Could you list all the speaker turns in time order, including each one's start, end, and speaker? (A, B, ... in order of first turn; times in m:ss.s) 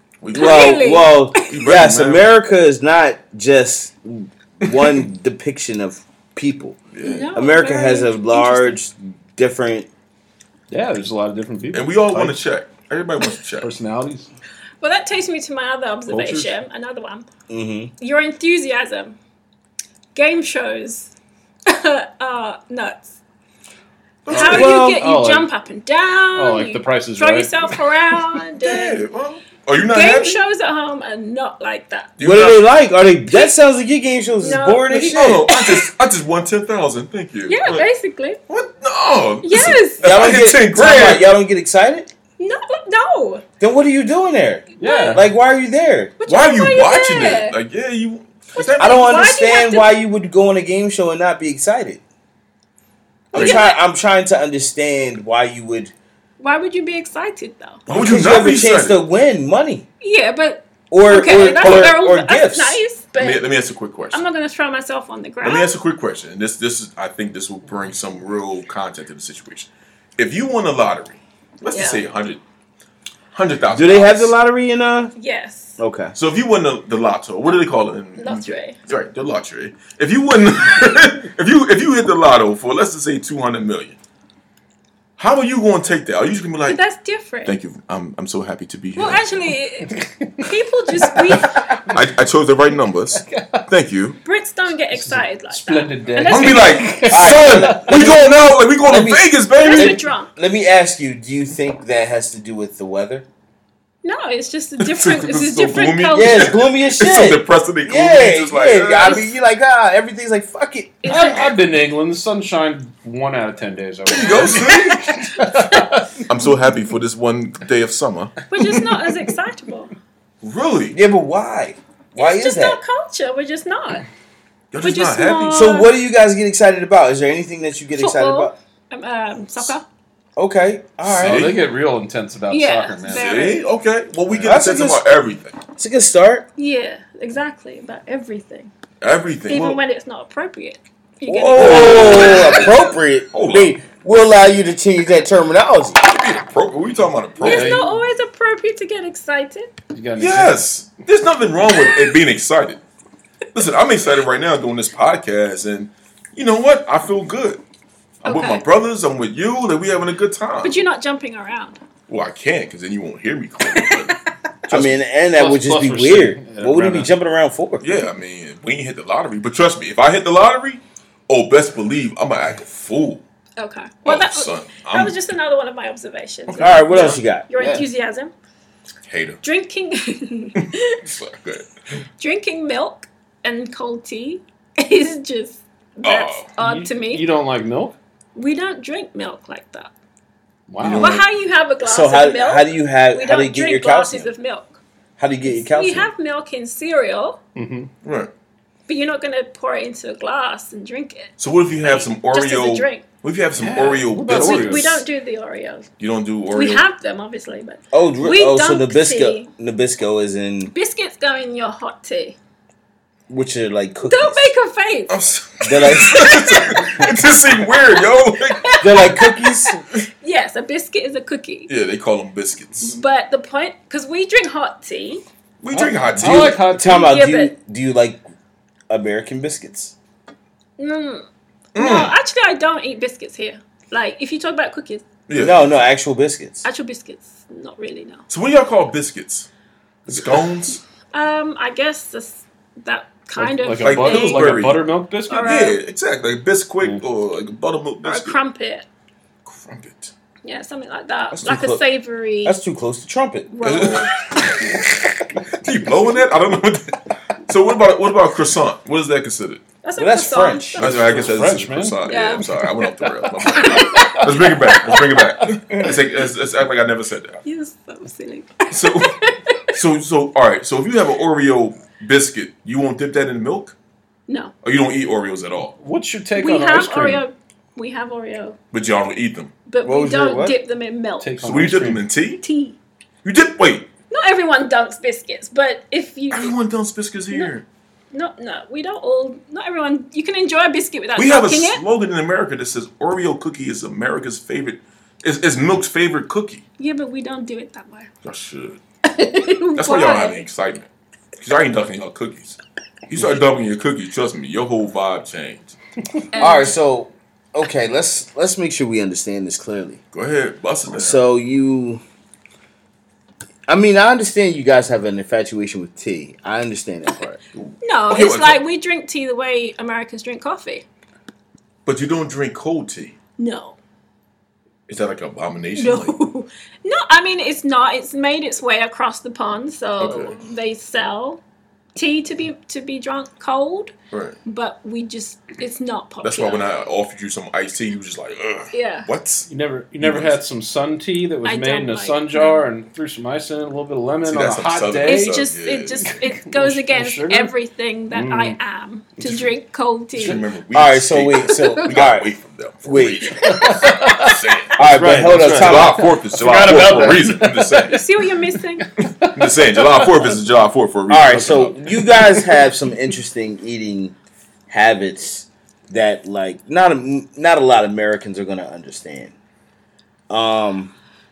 0:00.2-0:00.9 A
0:00.3-0:01.5 B
0:00.3-0:06.8 C
0:01.4-0:02.3 A
0:04.6-0:05.0 A
0:06.9-0:07.3 A
0:07.0-0:08.8 B
0:07.3-0:09.9 C
0:10.7-0:12.4 D
0:11.7-0:13.7 A
0:13.6-0:14.3 D
0:14.8-0:17.3 B
0:16.1-0:16.6 D
0:17.5-0:17.9 C
0:18.0-0:19.2 B
0:20.2-0:21.1 B
0:21.7-0:23.2 B
0:24.3-0:24.8 A
0:24.3-0:29.0 B
0:24.3-0:25.0 C
0:24.7-0:25.5 D
0:26.3-0:27.8 D
0:28.6-0:30.4 A
0:29.9-0:32.1 B
0:32.2-0:32.7 A
0:32.2-0:35.5 C
0:34.4-0:35.9 B
0:34.9-0:37.9 A
0:37.5-0:38.4 B
0:38.5-0:41.3 A
0:39.4-0:40.2 B
0:40.0-0:42.1 C
0:42.4-0:43.4 B
0:43.6-0:46.1 C
0:44.8-0:45.3 D
0:44.8-0:45.2 B
0:46.2-0:47.6 B
0:46.3-0:49.1 A
0:48.6-0:49.9 B
0:48.8-0:52.0 C
0:53.3-0:53.7 A
0:53.3-0:53.8 B
0:53.3-0:55.9 C
0:56.4-0:57.8 B
0:57.9-0:59.0 A
0:57.9-0:59.9 C
1:00.0-1:03.4 B
1:00.9-1:02.8 C
1:01.6-1:02.0 A
1:03.2-1:04.2 A
1:04.1-1:05.8 B
1:05.4-1:12.4 A
1:11.7-1:12.0 B
1:13.3-1:14.3 A
1:13.7-1:15.1 C
1:15.2-1:15.8 B
1:15.8-1:16.1 C
1:16.2-1:24.0 A
1:18.2-1:18.8 B
1:25.2-1:26.8 A
1:26.7-1:27.5 B
1:27.4-1:29.5 A
1:29.0-1:31.8 B
1:29.9-1:30.5 D
1:31.0-1:31.9 D
1:31.9-1:34.2 A
1:33.2-1:33.7 D
1:34.2-1:37.3 B
1:34.9-1:38.0 D
1:36.3-1:40.1 A
1:37.1-1:38.3 C
1:37.9-1:38.3 B
1:38.8-1:43.2 C
1:39.5-1:40.3 B
1:44.0-1:46.6 B
1:44.8-1:49.2 A
1:46.1-1:51.0 C
1:51.0-1:51.5 B
1:51.1-1:56.2 D
1:54.1-1:55.3 A
1:54.7-1:55.0 B
1:56.3-1:59.0 A
1:58.5-1:59.9 B
2:00.4-2:01.0 A
2:00.9-2:02.8 C
2:02.2-2:04.1 B
2:04.7-2:05.8 A
2:04.8-2:05.9 B
2:05.5-2:08.6 C
2:08.0-2:09.8 B
2:10.4-2:11.5 C
2:11.0-2:11.6 A
2:11.2-2:13.4 D
2:12.5-2:13.6 B
2:13.1-2:15.6 A
2:14.4-2:15.1 C
2:15.8-2:16.5 C
2:16.6-2:18.7 B
2:19.0-2:19.8 A
2:19.5-2:22.9 B
2:21.3-2:26.0 C
2:21.5-2:23.7 A
2:26.0-2:27.8 A
2:27.4-2:28.0 D
2:27.4-2:29.7 B
2:29.9-2:30.6 D
2:30.2-2:32.8 A
2:31.8-2:32.1 B
2:33.5-2:37.6 A
2:38.2-2:38.6 B
2:38.2-2:40.8 A
2:40.6-2:41.8 B
2:42.1-2:45.0 A
2:43.8-2:44.1 B
2:44.7-2:47.9 C
2:45.4-2:47.1 D
2:47.8-2:53.2 A
2:53.6-2:58.3 B
2:54.0-2:55.2 A
2:56.5-2:57.2 A
2:56.6-2:57.5 C
2:57.6-2:57.9 D
2:59.1-2:59.4 A
2:59.4-3:01.0 B
3:00.6-3:01.7 A
3:02.2-3:07.2 B
3:06.0-3:06.5 A
3:06.6-3:08.0 D
3:08.4-3:09.9 B
3:10.7-3:11.2 D
3:10.8-3:11.3 A
3:11.0-3:14.8 B
3:11.8-3:14.3 C
3:15.2-3:16.1 C
3:15.5-3:17.4 B
3:17.6-3:17.9 D
3:18.0-3:18.3 A
3:18.9-3:23.0 B
3:21.4-3:25.1 A
3:23.6-3:24.9 D
3:24.3-3:25.9 B
3:26.0-3:26.8 A
3:26.5-3:29.5 B
3:27.9-3:30.7 C
3:30.7-3:32.4 B
3:33.3-3:34.5 C
3:34.0-3:35.2 B
3:35.1-3:39.3 A
3:35.6-3:36.3 C
3:36.0-3:37.1 B
3:38.6-3:41.7 B
3:38.8-3:39.8 C
3:41.7-3:43.0 A
3:42.8-3:45.2 B
3:45.6-3:46.6 A
3:45.7-3:47.1 D
3:46.2-3:48.2 C
3:46.8-3:47.5 B
3:48.9-3:49.9 C
3:50.8-3:55.1 B
3:51.8-3:52.2 A
3:55.3-3:55.7 A
3:55.4-3:56.7 C
3:56.6-3:58.2 B
3:58.3-3:59.5 A
4:00.1-4:00.8 A
4:01.1-4:04.6 B
4:03.4-4:05.6 D
4:03.8-4:04.8 A
4:05.3-4:05.8 B
4:05.4-4:08.4 A
4:08.0-4:08.9 B
4:09.5-4:10.1 A
4:10.4-4:12.6 B
4:11.3-4:11.8 C
4:12.4-4:13.9 C
4:13.5-4:14.6 B
4:13.6-4:14.9 A
4:15.6-4:19.6 A
4:19.8-4:20.9 B
4:20.0-4:21.3 C
4:20.8-4:27.4 A
4:20.9-4:22.0 D
4:22.0-4:22.7 B
4:23.5-4:24.2 B
4:23.8-4:24.3 D
4:24.9-4:25.4 D
4:27.4-4:29.7 B
4:28.7-4:29.2 A
4:29.7-4:33.8 A
4:34.3-4:34.5 B
4:34.6-4:35.8 A
4:35.8-4:37.2 D
4:36.4-4:38.6 B
4:38.7-4:39.5 A
4:39.7-4:41.5 B
4:39.8-4:40.6 C
4:41.2-4:42.0 D
4:41.4-4:42.4 A
4:42.4-4:42.8 B
4:43.2-4:43.9 A
4:44.1-4:46.6 B
4:46.3-4:47.6 A
4:48.1-4:51.8 B
4:51.2-4:56.6 A
4:56.8-4:58.1 B
4:58.2-4:58.8 A
4:59.0-5:00.5 B
4:59.8-5:05.8 A
5:06.3-5:06.8 B
5:06.4-5:10.0 C
5:10.1-5:11.2 A
5:10.9-5:12.0 C
5:13.7-5:17.4 C
5:17.5-5:18.6 A
5:17.8-5:20.8 B
5:21.9-5:23.2 A
5:23.4-5:23.8 B
5:24.9-5:26.2 A
5:25.8-5:31.4 B
5:30.0-5:30.4 A
5:32.0-5:33.9 B
5:34.1-5:34.4 A
5:34.4-5:36.6 B
5:36.2-5:39.5 A
5:38.7-5:39.1 B
5:39.5-5:45.5 D
5:40.0-5:40.4 A
5:41.4-5:42.3 B
5:44.2-5:46.2 A
5:45.0-5:50.4 B
5:46.0-5:47.5 D
5:48.1-5:48.6 D
5:49.2-5:49.5 A
5:50.2-5:58.0 A
5:50.7-5:52.3 C
5:52.8-5:53.4 C
5:53.4-5:58.0 D
5:53.5-5:54.0 B
5:54.8-5:56.0 C
5:57.9-5:58.9 B
5:58.8-6:00.3 D
5:59.2-6:01.8 A
6:01.1-6:04.2 C
6:02.0-6:02.5 D
6:04.7-6:09.3 C
6:10.3-6:10.9 C